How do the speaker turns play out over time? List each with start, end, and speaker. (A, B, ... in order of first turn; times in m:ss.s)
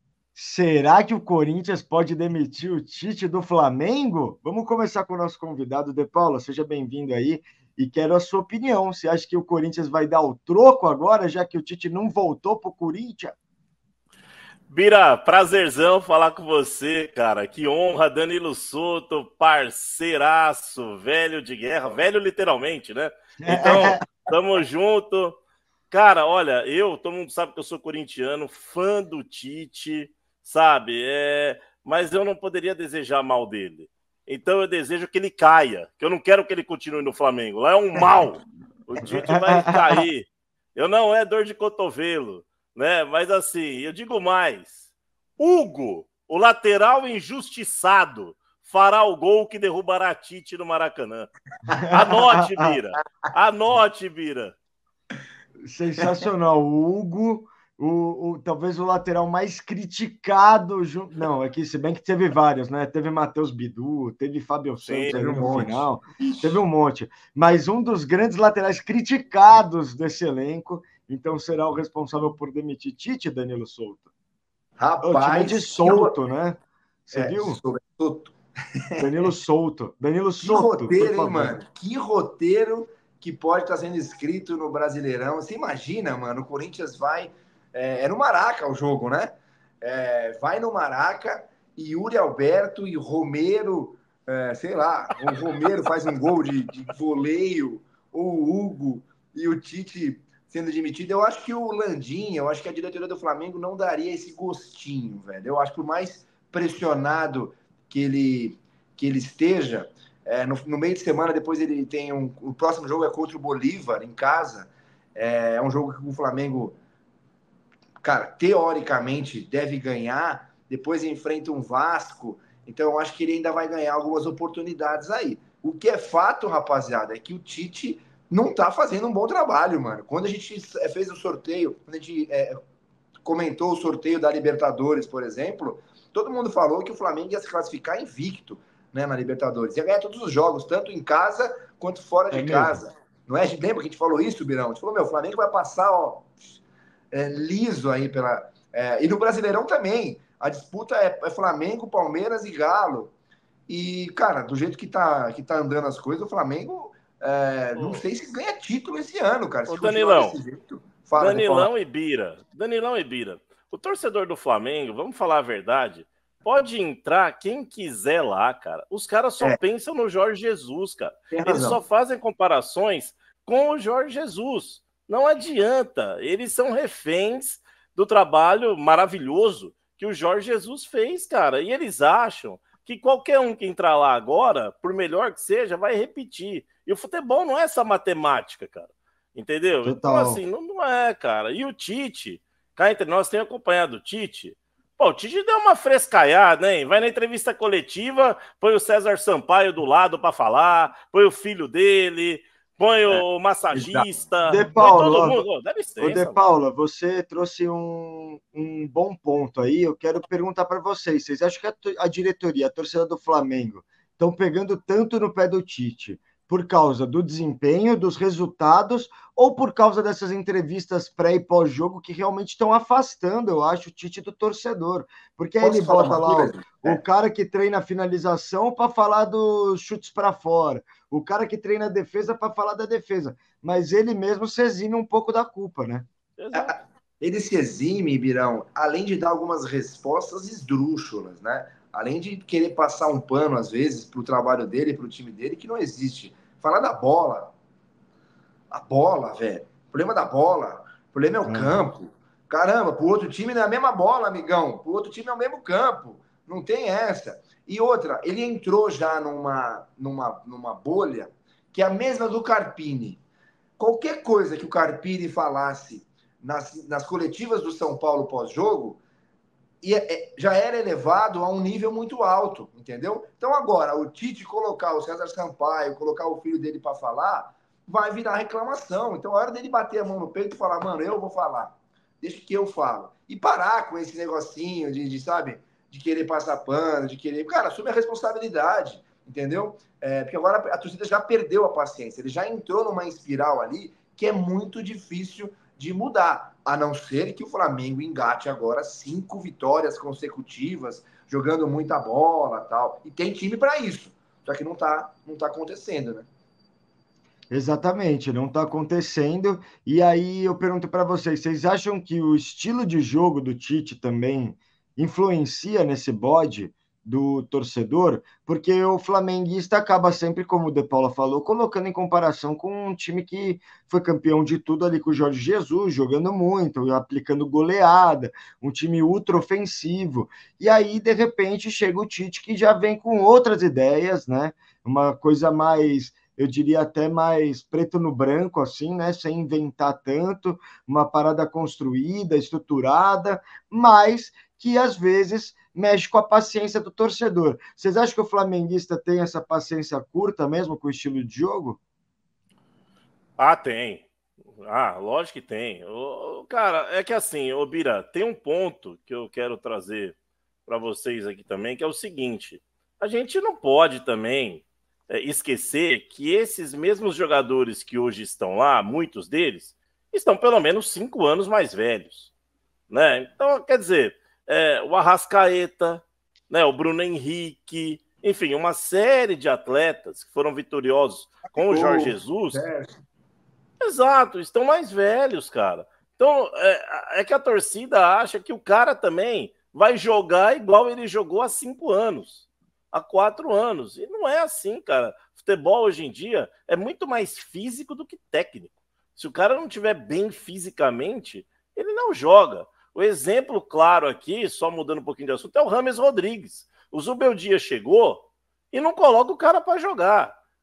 0:00.3-0:13.3 A
0:14.7-0:25.4 B
0:23.4-0:24.2 A
0:25.9-0:44.8 B
0:39.4-0:40.0 A
0:45.4-0:51.3 B
0:51.7-0:52.7 A
0:51.9-0:54.5 B
0:55.6-1:14.1 A
1:04.8-1:05.2 B
1:05.1-1:06.6 C
1:14.8-1:16.1 C
1:15.0-1:17.6 A
1:17.1-1:18.3 C
1:19.0-1:21.6 A
1:20.4-1:56.8 C
1:58.0-2:12.5 C
2:13.2-2:26.3 C
2:22.3-2:22.8 A
2:27.1-2:33.1 C
2:33.7-2:41.7 C
2:37.8-2:38.0 B
2:39.7-2:40.4 B
2:41.2-3:26.4 B
2:51.3-2:51.8 C
3:09.8-3:10.4 A
3:23.7-3:24.1 C
3:24.5-3:25.4 A
3:26.0-3:56.0 A
3:45.6-3:47.0 C
3:56.4-3:56.7 B
3:56.5-4:07.5 C
4:08.7-4:23.2 C
4:11.4-4:11.8 A
4:23.8-4:29.0 C
4:29.8-5:06.3 C
5:07.5-5:51.8 A
5:53.4-5:54.1 B
5:54.6-6:00.1 B
6:00.7-6:12.3 B
6:12.9-6:22.6 B
6:21.5-6:22.9 C
6:23.8-6:50.4 B